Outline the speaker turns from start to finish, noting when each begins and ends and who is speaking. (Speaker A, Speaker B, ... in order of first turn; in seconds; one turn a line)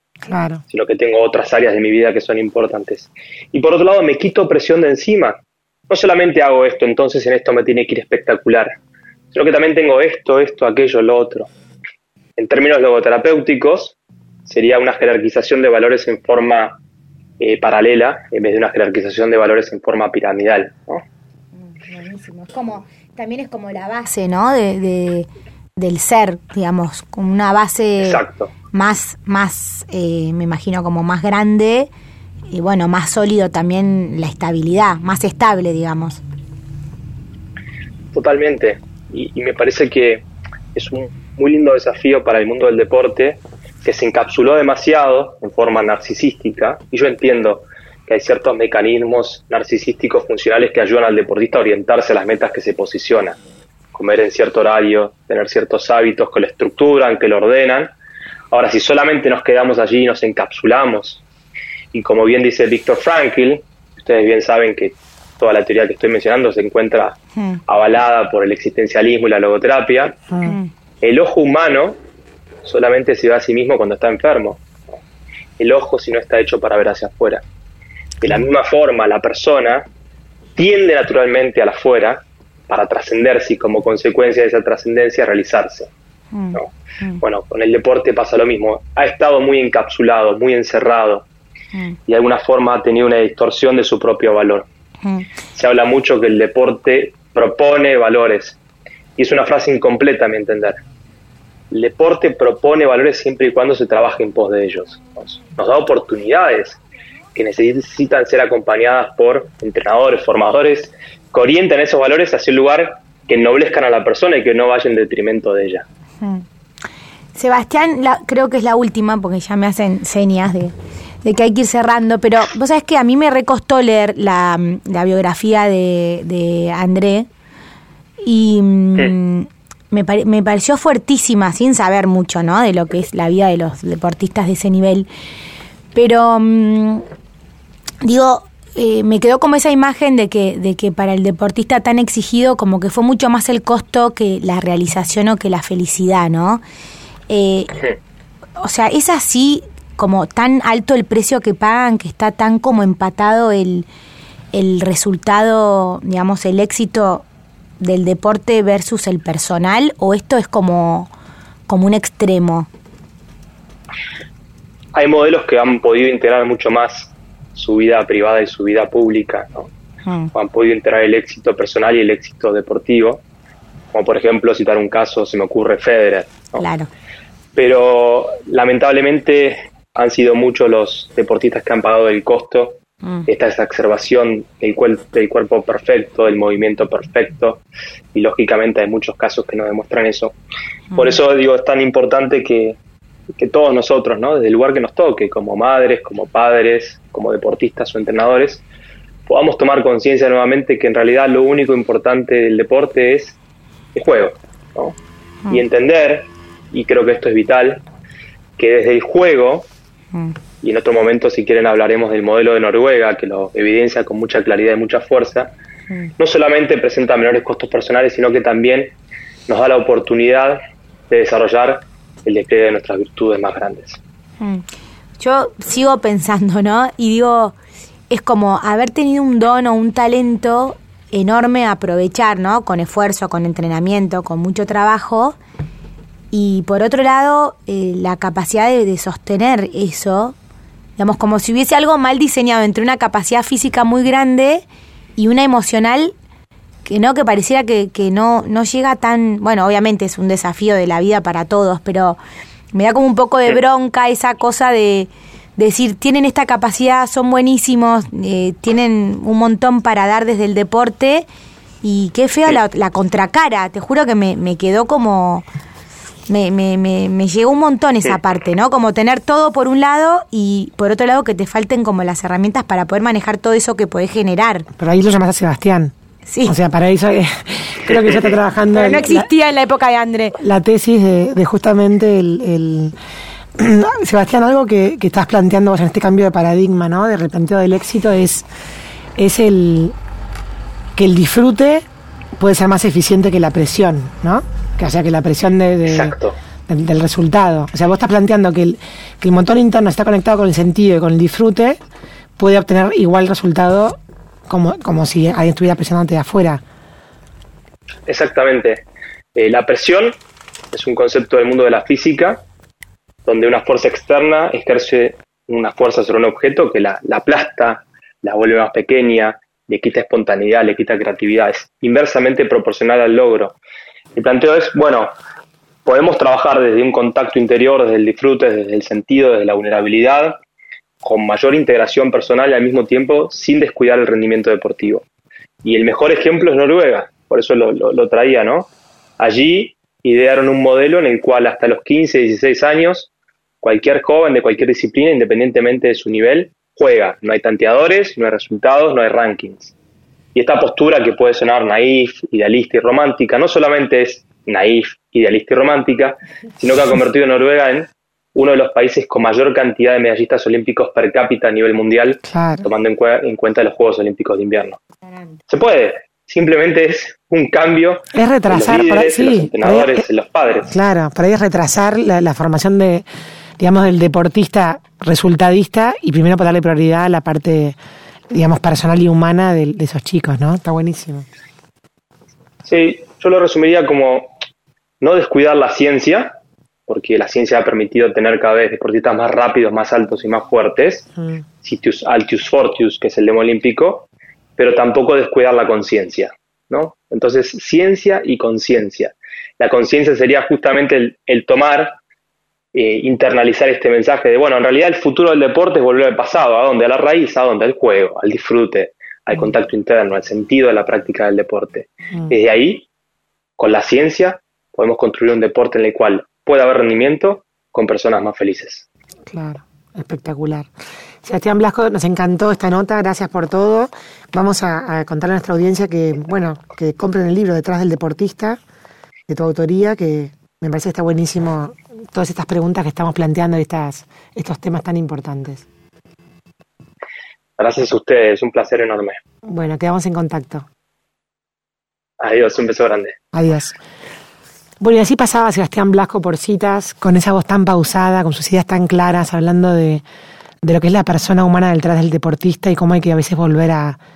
Speaker A: 0.2-0.6
Speaker B: 0.7-8.8
Speaker B: 9.3-11.5
Speaker B: 12.4-16.8
Speaker B: 17.4-21.0
Speaker C: 21.6-31.9
Speaker B: 28.0-28.5
Speaker C: 32.5-36.2
Speaker B: 38.1-53.4
Speaker B: 53.9-57.9
Speaker B: 58.5-61.2
Speaker B: 61.9-70.2
Speaker C: 67.3-67.6
Speaker A: 70.3-70.6
Speaker C: 70.4-70.7
Speaker B: 71.0-72.0
Speaker B: 72.6-75.0
Speaker B: 75.6-77.4
Speaker B: 78.2-79.9
Speaker B: 80.5-85.9
Speaker C: 86.3-87.2
Speaker B: 86.5-91.2
Speaker B: 92.1-94.7
Speaker C: 95.0-95.3
Speaker B: 95.5-98.6
Speaker B: 99.2-100.8
Speaker B: 101.7-106.8
Speaker B: 107.3-115.8
Speaker C: 117.3-127.3
Speaker C: 128.2-135.1
Speaker C: 135.9-137.0
Speaker C: 138.0-146.6
Speaker C: 147.3-147.8
Speaker C: 148.6-153.9
Speaker C: 154.5-157.2
Speaker C: 157.8-161.1
Speaker C: 161.7-162.7
Speaker B: 164.9-169.7
Speaker C: 170.0-170.3
Speaker B: 170.3-173.2
Speaker B: 173.9-176.6
Speaker C: 176.6-176.9
Speaker B: 177.5-187.6
Speaker B: 188.1-190.4
Speaker B: 190.9-192.8
Speaker B: 193.3-198.6
Speaker B: 199.2-203.4
Speaker B: 203.9-205.0
Speaker B: 205.5-207.8
Speaker B: 208.6-209.7
Speaker B: 210.6-215.5
Speaker B: 216.2-218.9
Speaker B: 219.5-220.6
Speaker B: 221.1-224.0
Speaker C: 224.4-224.6
Speaker C: 225.2-227.5
Speaker C: 228.1-235.4
Speaker C: 236.3-240.3
Speaker C: 241.0-244.6
Speaker C: 245.2-246.1
Speaker C: 246.8-252.2
Speaker C: 252.7-261.2
Speaker C: 261.8-265.4
Speaker C: 266.3-274.7
Speaker A: 274.8-279.3
Speaker C: 276.3-276.5
Speaker C: 278.7-280.4
Speaker A: 280.4-282.9
Speaker A: 283.6-288.4
Speaker A: 289.1-289.9
Speaker A: 290.9-291.8
Speaker A: 292.4-296.1
Speaker B: 295.9-296.4
Speaker A: 296.7-301.8
Speaker A: 302.4-306.6
Speaker B: 308.1-310.2
Speaker B: 310.7-312.4
Speaker B: 313.2-323.6
Speaker B: 324.1-325.1
Speaker B: 325.8-330.4
Speaker B: 331.0-335.1
Speaker B: 335.6-343.1
Speaker B: 343.6-349.7
Speaker B: 350.3-364.8
Speaker A: 362.2-362.6
Speaker B: 365.5-370.7
Speaker A: 368.1-370.0
Speaker A: 370.7-373.0
Speaker A: 373.6-377.8
Speaker A: 378.3-381.2
Speaker B: 382.6-384.3
Speaker B: 385.0-386.3
Speaker B: 386.9-391.1
Speaker B: 391.6-402.0
Speaker B: 402.7-412.9
Speaker B: 413.6-418.8
Speaker A: 419.3-420.7
Speaker A: 421.2-428.6
Speaker A: 429.3-435.6
Speaker B: 437.6-439.2
Speaker A: 439.4-440.6
Speaker B: 442.2-443.2
Speaker A: 443.3-443.8
Speaker A: 444.8-450.0
Speaker A: 450.6-454.0